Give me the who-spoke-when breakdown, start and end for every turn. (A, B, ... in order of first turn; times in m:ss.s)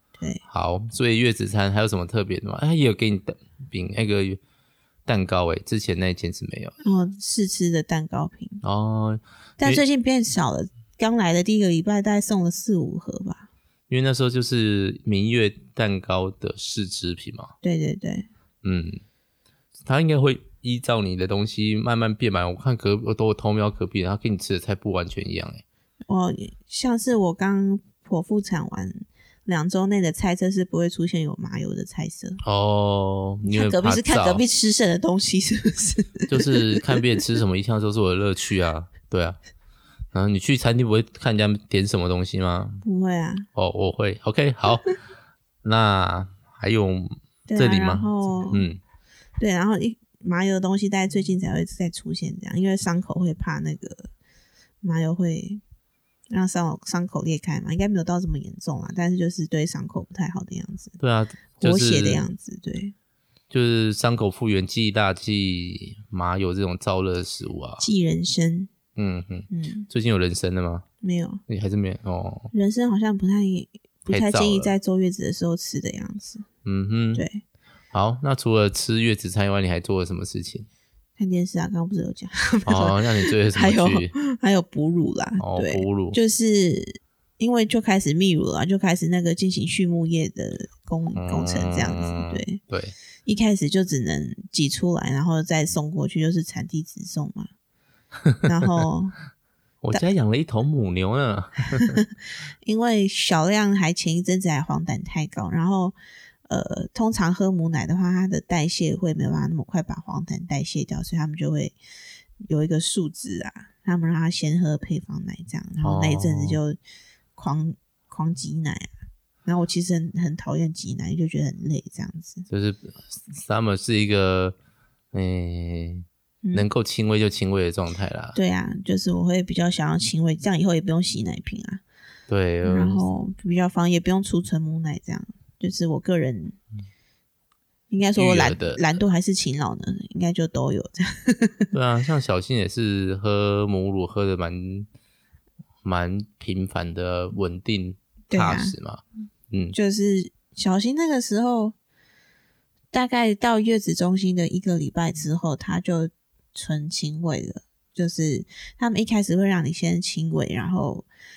0:00.5-0:04.4 A
0:05.1-0:06.8 A
0:06.8-0:08.6 B
0:08.6-0:09.8 A
0:09.6-0:13.5 B
0:13.9-0:17.5 A
0:17.6-0:18.3 B
0:18.6-0:19.0 A
0:19.8-0:25.6 A
0:26.1-0:32.4 B
0:32.4-0:34.4 A
0:33.4-0:37.0 B
0:36.3-0:39.4 A
0:40.1-0:42.8 A
0:42.8-0:43.5 B
0:43.6-0:44.9 A
0:45.6-0:48.8 A
0:47.5-0:48.7 B
0:49.4-0:54.1 B
0:54.8-0:55.6 B
0:56.3-1:01.0 B
1:01.0-1:02.3 A
1:01.6-1:02.9 B
1:03.5-1:07.8 A
1:07.8-1:08.7 B
1:09.0-1:10.8 A
1:09.5-1:09.9 B
1:11.0-1:11.4 B
1:11.5-1:12.5 A
1:12.5-1:16.5 B
1:14.1-1:14.7 A
1:16.6-1:17.2 A
1:17.2-1:17.4 B
1:17.9-1:20.7 A
1:21.2-1:32.6 B
1:22.7-1:24.1 A
1:25.4-1:26.2 A
1:31.2-1:33.0 A
1:33.3-1:37.5 B
1:38.4-1:39.2 B
1:39.8-1:42.0 A
1:41.8-1:42.1 B
1:42.6-1:46.0 B
1:46.5-1:51.8 B
1:52.4-1:56.8 B
1:55.8-1:56.6 A
1:57.4-1:58.9 B
1:59.4-2:02.5 B
2:02.5-2:04.6 A
2:05.1-2:08.4 A
2:06.4-2:06.7 B
2:08.4-2:11.8 B
2:12.3-2:13.0 A
2:12.6-2:16.6 B
2:17.9-2:21.7 B
2:18.2-2:18.9 A
2:21.7-2:24.9 A
2:25.8-2:29.8 A
2:28.3-2:28.8 B
2:29.7-2:31.8 B
2:32.9-2:41.1 B